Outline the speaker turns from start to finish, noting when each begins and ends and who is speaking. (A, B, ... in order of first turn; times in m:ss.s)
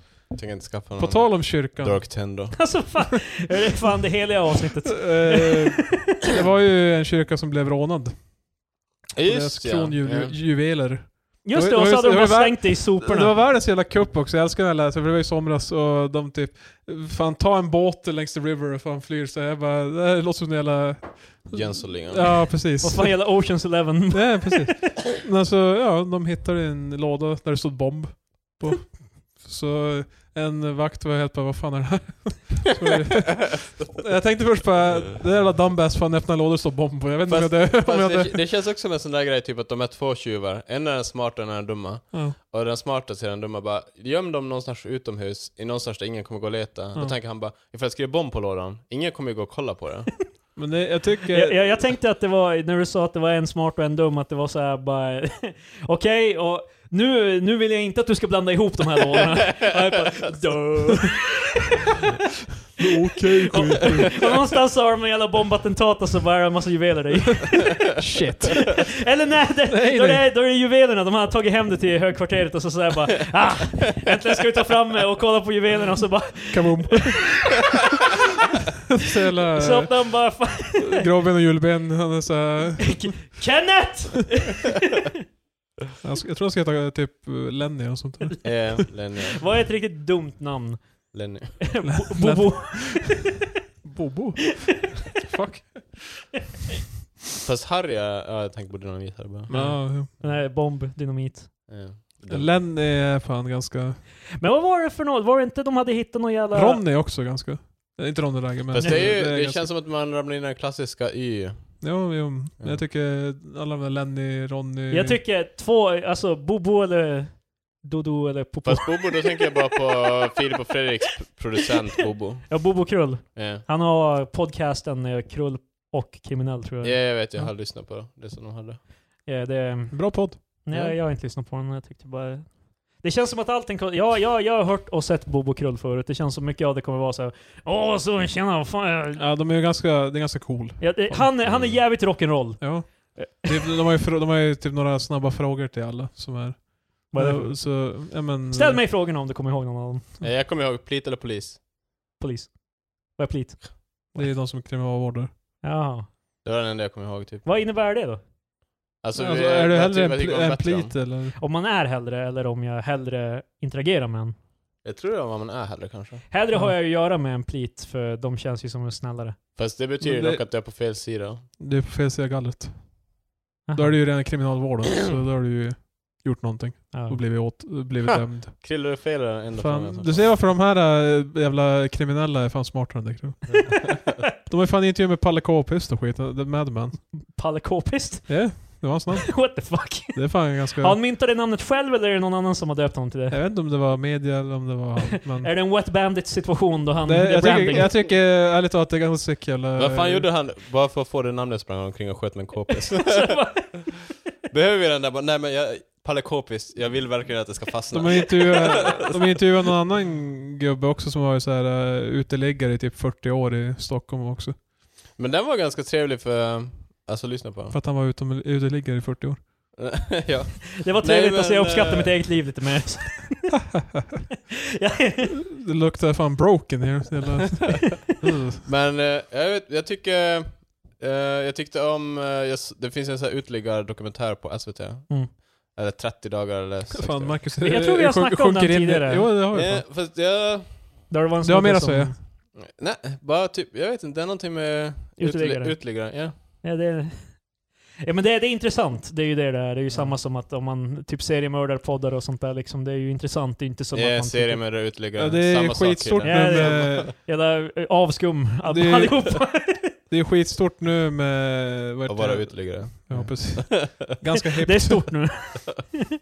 0:00.3-0:03.0 A
0:01.0-0:02.2 B
0:02.5-0:06.0 C
0:04.9-0:08.4 B
0:09.2-0:10.3 A
0:09.2-0:38.4 B
0:11.4-0:13.3 C
0:21.5-0:22.5 A
0:22.8-0:24.7 C
0:37.3-0:50.3 A
0:50.6-0:51.6 B
0:51.3-1:01.6 C
1:02.8-1:04.2 B
1:03.4-1:17.6 C
1:08.0-1:08.9 B
1:09.7-1:10.2 B
1:16.5-1:17.6 B
1:19.0-1:23.4 B
1:19.6-1:21.0 C
1:22.8-1:24.8 C
1:26.0-1:28.8 B
1:28.4-1:29.4 A
1:29.3-1:33.3 C
1:31.1-1:32.0 A
1:31.8-1:33.3 B
1:33.8-1:36.3 B
1:37.4-1:40.4 A
1:39.5-1:40.1 B
1:39.5-1:41.6 C
1:41.7-1:42.6 A
1:42.3-1:44.0 B
1:44.4-1:46.8 C
1:46.5-1:49.6 B
1:48.7-1:52.8 A
1:48.8-1:49.1 C
1:51.8-1:55.2 B
1:54.9-1:59.4 C
1:58.6-2:03.6 A
2:02.5-2:07.0 C
2:06.8-2:08.8 A
2:09.2-2:19.2 C
2:09.9-2:11.0 B
2:19.2-2:21.3 B
2:20.8-2:23.6 C
2:21.4-2:21.8 A
2:22.6-2:28.8 B
2:27.1-2:30.1 C
2:30.2-2:31.6 A
2:32.2-2:34.3 C
2:34.1-2:35.3 B
2:35.6-2:36.1 C
2:36.4-2:37.4 A
2:37.4-2:38.2 C
2:39.0-2:41.0 A
2:39.1-2:41.4 B
2:41.4-2:44.3 C
2:44.8-2:46.3 A
2:46.3-2:49.4 C
2:49.6-2:51.4 A
2:50.0-2:50.4 B
2:51.6-2:53.2 B
2:53.6-2:54.0 C
2:53.7-2:59.0 B
2:56.9-2:57.5 C
2:58.4-3:00.4 A
2:59.6-3:07.1 B
3:03.4-3:04.2 A
3:07.1-3:13.4 C
3:08.3-3:11.0 B
3:13.3-3:15.5 B
3:15.3-3:18.0 C
3:17.0-3:20.3 B
3:19.8-3:23.8 A
3:22.8-3:24.0 C
3:24.5-3:29.4 A
3:27.9-3:34.6 B
3:35.2-3:37.8 A
3:37.7-3:39.4 B
3:39.8-3:42.4 A
3:40.8-3:43.7 C
3:44.8-3:45.3 C
3:45.4-3:48.6 B
3:48.6-3:57.6 A
3:56.9-3:59.8 B
3:57.6-3:59.3 C
3:59.5-4:01.1 A
4:01.1-4:02.2 C
4:01.4-4:02.2 B
4:02.5-4:06.4 A
4:05.2-4:14.6 C
4:09.9-4:10.2 A
4:13.9-4:17.0 A
4:15.2-4:17.1 B
4:16.2-4:19.9 C
4:18.6-4:25.4 B
4:22.1-4:24.0 A
4:24.6-4:26.0 C